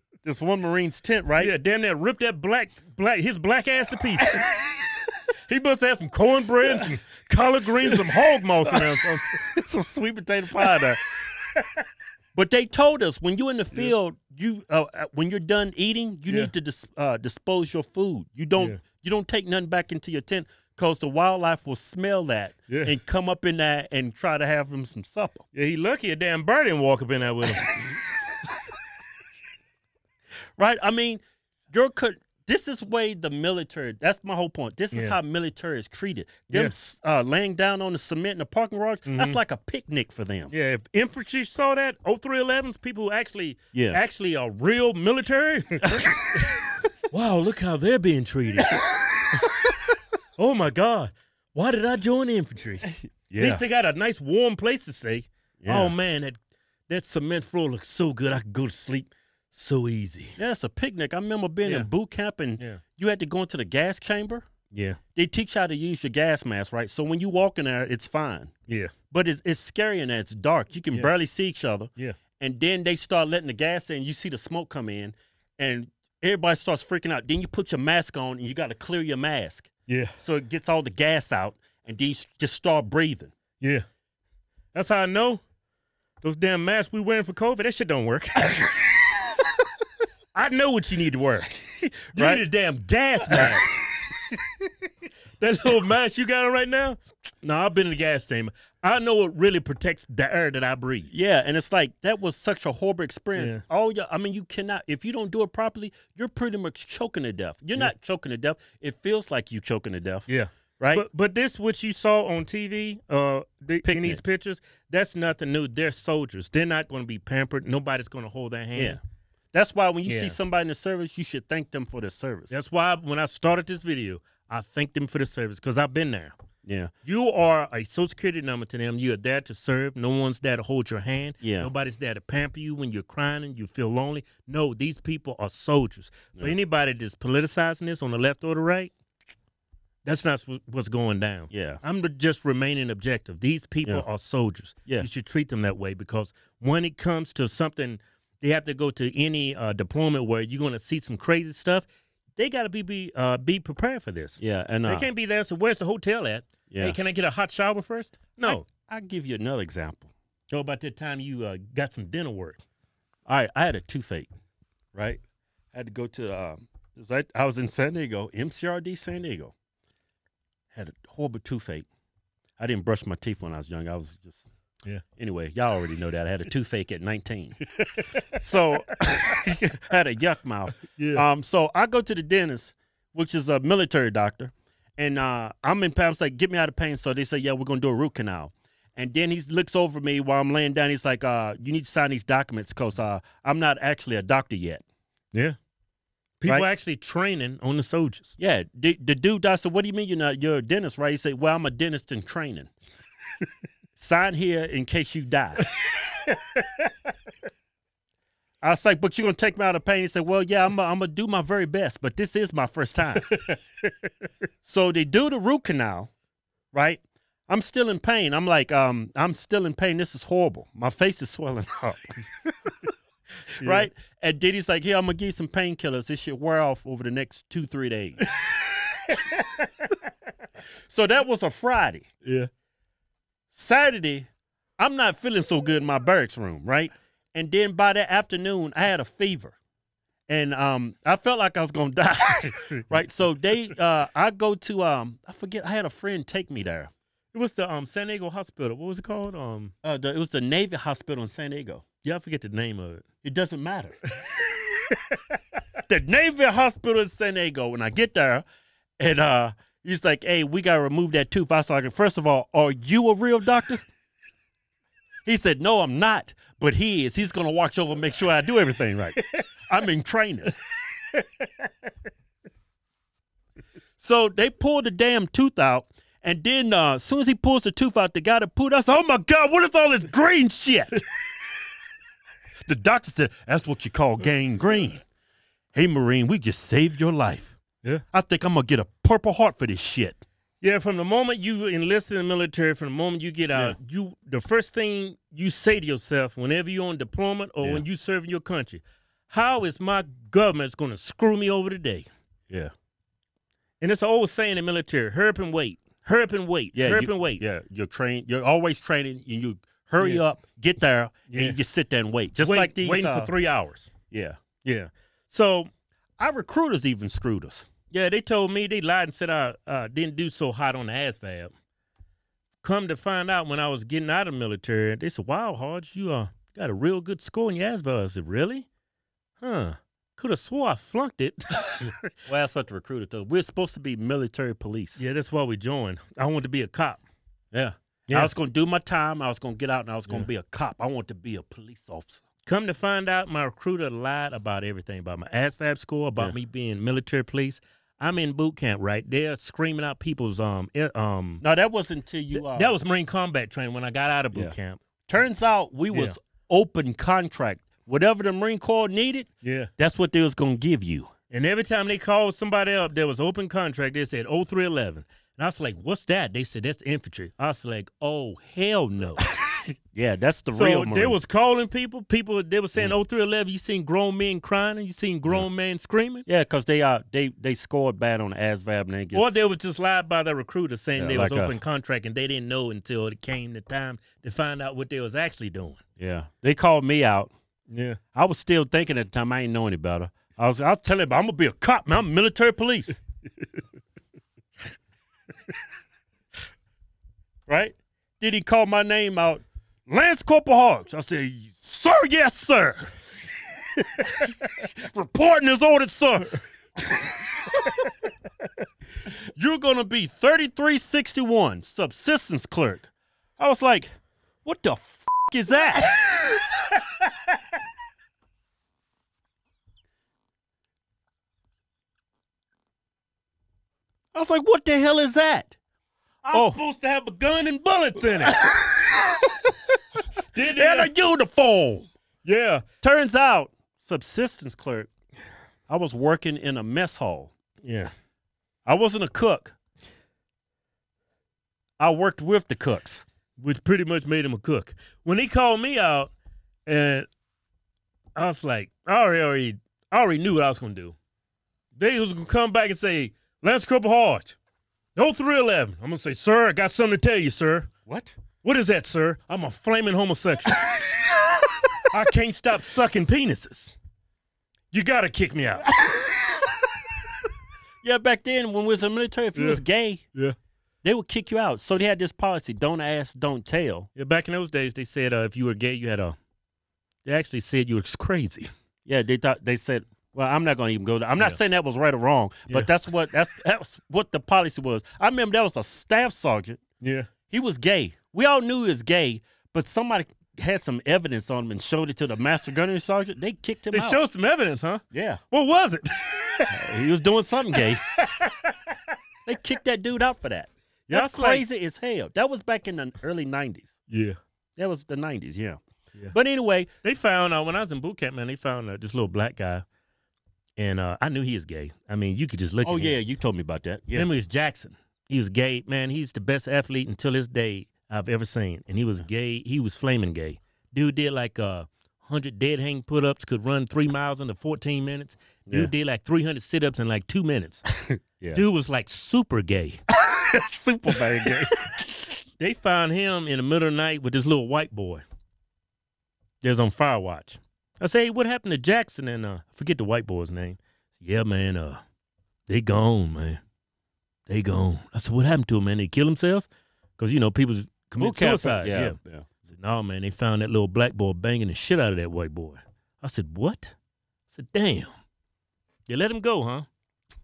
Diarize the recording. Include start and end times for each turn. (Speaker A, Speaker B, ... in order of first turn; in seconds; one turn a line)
Speaker A: 0.2-1.5
Speaker B: 1.4-4.8
Speaker B: 5.5-9.4
Speaker A: 8.6-11.0
Speaker B: 11.4-11.7
Speaker A: 12.3-25.4
Speaker B: 16.3-16.5
Speaker B: 25.5-28.0
Speaker A: 30.6-40.5
Speaker B: 39.0-39.4
Speaker B: 40.5-49.8
Speaker A: 43.7-44.0
Speaker B: 50.4-56.4
Speaker A: 53.3-53.6
Speaker A: 55.6-56.0
Speaker B: 56.9-60.3
Speaker A: 60.4-64.5
Speaker B: 61.6-61.9
Speaker B: 64.7-65.0
Speaker A: 65.1-68.5
Speaker A: 69.1-79.7
Speaker B: 79.9-80.2
Speaker A: 80.2-83.3
Speaker B: 84.7-85.4
Speaker B: 86.2-89.1
Speaker B: 90.3-94.4
Speaker A: 92.2-92.4
Speaker A: 93.3-93.7
Speaker B: 95.4-101.1
Speaker A: 101.1-110.3
Speaker B: 103.3-103.6
Speaker B: 110.3-119.0
Speaker A: 110.8-111.0
Speaker A: 113.8-114.2
Speaker A: 119.5-122.5
Speaker B: 120.0-120.4
Speaker B: 122.5-126.3
Speaker A: 126.6-126.9
Speaker B: 127.0-138.9
Speaker A: 131.4-131.7
Speaker B: 140.0-158.6
Speaker A: 141.5-141.8
Speaker A: 154.4-155.1
Speaker A: 156.7-157.0
Speaker A: 158.4-160.1
Speaker B: 160.5-162.6
Speaker A: 163.3-164.3
Speaker A: 164.9-165.2
Speaker A: 165.7-169.5
Speaker A: 170.7-171.9
Speaker A: 172.6-174.4
Speaker A: 175.2-177.6
Speaker B: 177.8-178.2
Speaker A: 178.3-194.8
Speaker B: 180.8-181.2
Speaker B: 196.4-198.3
Speaker A: 198.4-202.7
Speaker A: 203.9-205.6
Speaker B: 205.8-206.9
Speaker A: 208.6-213.3
Speaker B: 213.3-213.6
Speaker A: 214.6-216.1
Speaker A: 216.7-222.3
Speaker A: 223.6-228.3
Speaker B: 223.6-223.9
Speaker B: 228.3-230.0
Speaker A: 230.9-232.1
Speaker B: 232.2-232.5
Speaker A: 233.5-239.6
Speaker A: 240.3-246.9
Speaker B: 242.6-243.0
Speaker B: 247.3-249.7
Speaker A: 249.8-251.8
Speaker B: 252.0-253.0
Speaker A: 253.2-253.9
Speaker B: 254.1-255.4
Speaker A: 255.8-258.4
Speaker A: 259.0-263.8
Speaker A: 265.2-270.5
Speaker B: 271.1-271.5
Speaker A: 274.0-281.0
Speaker A: 282.6-285.0
Speaker A: 285.7-287.6
Speaker A: 288.1-290.2
Speaker B: 290.6-302.1
Speaker B: 303.8-307.4
Speaker A: 306.7-313.3
Speaker B: 311.3-311.6
Speaker B: 312.4-313.9
Speaker A: 314.1-314.4
Speaker B: 314.6-315.7
Speaker A: 316.2-317.7
Speaker B: 317.9-321.5
Speaker B: 322.6-328.6
Speaker B: 329.4-332.0
Speaker A: 332.3-335.0
Speaker B: 335.0-337.0
Speaker A: 337.5-342.2
Speaker B: 338.1-338.3
Speaker B: 342.4-351.4
Speaker A: 351.4-352.7
Speaker B: 352.3-354.8
Speaker A: 355.1-361.1
Speaker B: 355.9-356.1
Speaker B: 359.4-359.7
Speaker B: 361.3-369.2
Speaker A: 369.5-371.2
Speaker B: 370.5-376.2
Speaker A: 376.2-379.4
Speaker B: 379.1-385.8
Speaker A: 381.0-381.6
Speaker A: 386.0-387.3
Speaker B: 387.7-388.0
Speaker A: 388.1-393.0
Speaker A: 397.5-402.9
Speaker A: 404.0-406.4
Speaker A: 409.1-413.9
Speaker A: 414.4-416.0
Speaker B: 415.9-417.3
Speaker A: 424.1-425.6
Speaker B: 426.2-429.1
Speaker A: 426.3-426.6
Speaker B: 430.3-430.9
Speaker A: 430.5-431.9
Speaker B: 432.2-432.6
Speaker A: 432.8-434.9
Speaker A: 435.7-437.3
Speaker B: 437.6-437.9
Speaker A: 438.6-439.6
Speaker A: 441.8-443.0
Speaker B: 443.4-446.1
Speaker B: 446.6-447.1
Speaker B: 448.1-450.9
Speaker B: 451.8-454.4
Speaker B: 454.9-457.7
Speaker A: 457.9-458.1
Speaker B: 458.4-461.1
Speaker B: 461.9-463.7
Speaker B: 464.7-466.6
Speaker A: 467.8-470.1
Speaker B: 469.4-469.6
Speaker A: 470.8-473.9
Speaker B: 473.9-476.2
Speaker B: 477.0-478.5
Speaker A: 478.9-486.6
Speaker B: 486.8-487.1
Speaker A: 487.3-494.0
Speaker B: 493.7-496.6
Speaker A: 494.9-495.2
Speaker A: 496.5-497.8
Speaker B: 497.6-498.9
Speaker A: 499.2-503.7
Speaker B: 500.9-501.4
Speaker B: 503.9-504.2
Speaker A: 504.6-505.6
Speaker A: 506.1-506.7
Speaker B: 506.8-509.6
Speaker B: 510.6-513.0
Speaker A: 512.6-514.1
Speaker B: 513.9-527.6
Speaker A: 527.8-528.4
Speaker B: 528.3-529.8
Speaker A: 529.9-531.8
Speaker B: 530.9-531.4
Speaker B: 532.4-535.0
Speaker B: 536.4-541.8
Speaker B: 542.5-543.4
Speaker B: 544.3-553.7
Speaker A: 548.0-549.3
Speaker B: 554.3-554.9
Speaker B: 555.9-556.7